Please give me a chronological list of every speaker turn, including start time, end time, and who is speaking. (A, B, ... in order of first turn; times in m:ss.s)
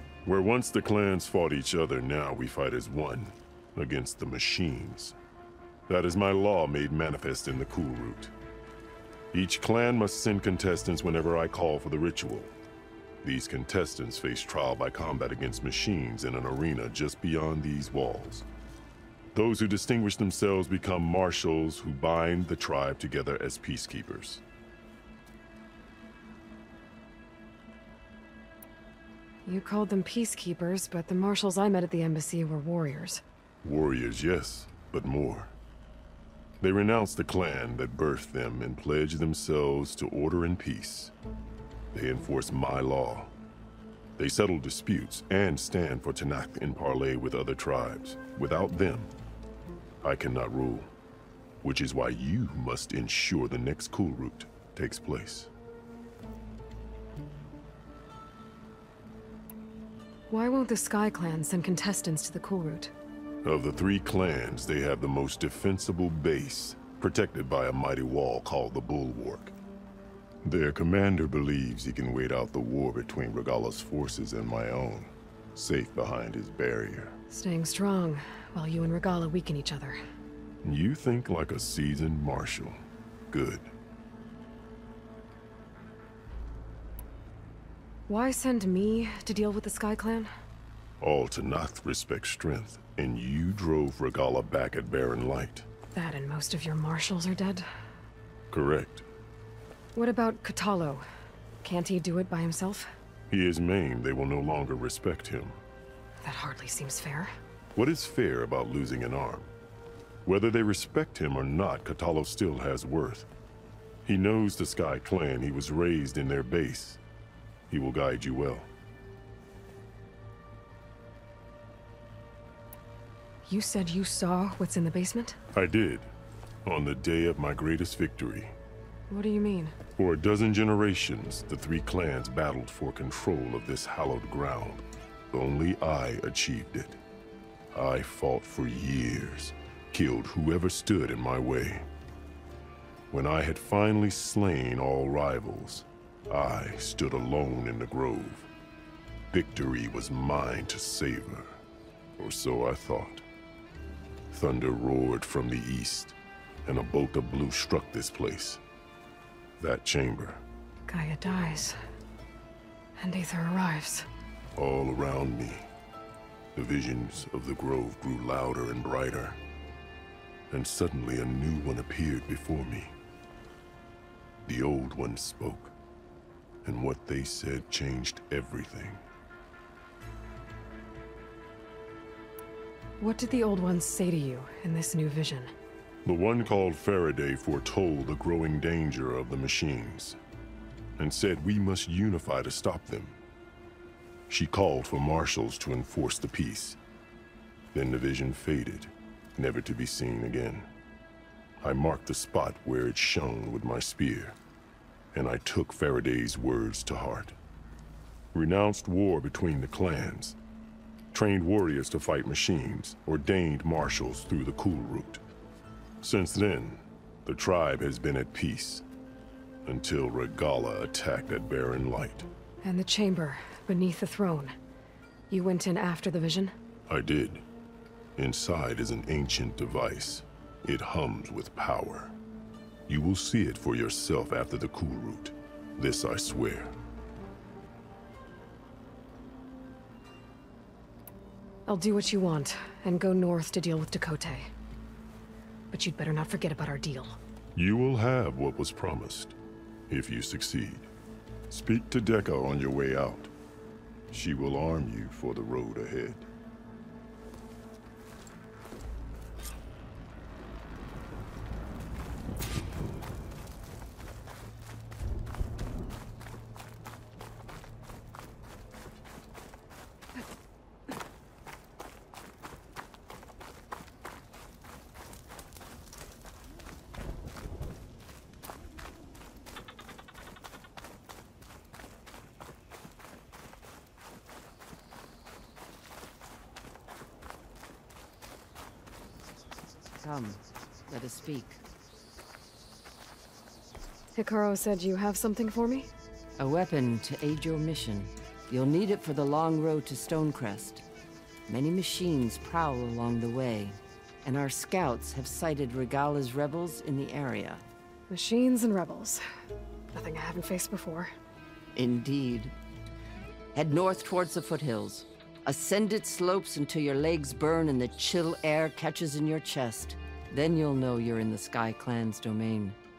0:00.2-0:05.2 A
0:05.9-0:08.3 A
0:09.3-0:12.5 A
0:13.2-0:18.5 A
0:19.3-0:24.4 A
0:29.5-0:33.2 B
0:33.6-0:35.5 A
0:36.6-0:41.1 A
0:41.9-0:43.3 A
0:44.2-0:49.1 A
0:50.0-0:50.9 A
0:51.6-0:55.5 A
1:00.3-1:02.9 B
1:03.4-1:09.5 A
1:10.4-1:17.2 A
1:17.3-1:20.0 B
1:20.6-1:22.8 A
1:23.3-1:23.7 A
1:28.1-1:30.3 B
1:31.0-1:35.7 A
1:35.9-1:37.7 B
1:38.5-1:39.0 A
1:40.0-1:41.0 B
1:41.6-1:42.9 B
1:43.3-1:45.6 A
1:46.2-1:47.3 B
1:47.8-1:49.5 A
1:50.2-1:53.3 A
1:54.1-1:57.0 A
1:57.7-1:58.7 A
2:03.5-2:05.4 B
2:05.5-2:06.1 A
2:06.7-2:08.5 A
2:09.1-2:09.8 B
2:10.0-2:17.0 A
2:17.7-2:21.9 A
2:23.1-2:28.5 A
2:29.3-2:31.6 A
2:32.2-2:33.2 A
2:34.3-2:36.2 A
2:36.7-2:38.6 A
2:39.6-2:40.4 A
2:40.9-2:41.8 B
2:43.0-2:44.1 B
2:44.6-2:45.7 A
2:46.6-2:49.4 A
2:50.5-2:52.9 A
2:54.5-2:55.7 A
2:56.6-2:59.0 A
3:03.0-3:05.5 B
3:06.0-3:10.2 A
3:11.0-3:13.2 A
3:14.3-3:16.8 A
3:17.7-3:20.7 A
3:21.6-3:24.4 A
3:25.1-3:27.4 A
3:28.3-3:30.4 A
3:31.1-3:35.2 A
3:36.0-3:38.8 A
3:39.7-3:42.3 A
3:42.6-3:44.5 B
3:45.3-3:46.5 B
3:46.9-3:47.4 A
3:48.2-3:52.1 A
3:52.9-3:56.7 A
4:01.7-4:04.5 B
4:05.7-4:07.2 B
4:07.6-4:09.4 A
4:09.9-4:10.9 A
4:11.5-4:13.3 A
4:14.1-4:16.3 A
4:50.0-4:51.6 C
4:54.2-4:55.9 B
4:56.4-5:00.8 C
5:01.5-5:07.6 C
5:08.1-5:09.2 B
5:09.9-5:11.1 B
5:11.8-5:12.5 C
5:13.5-5:22.8 C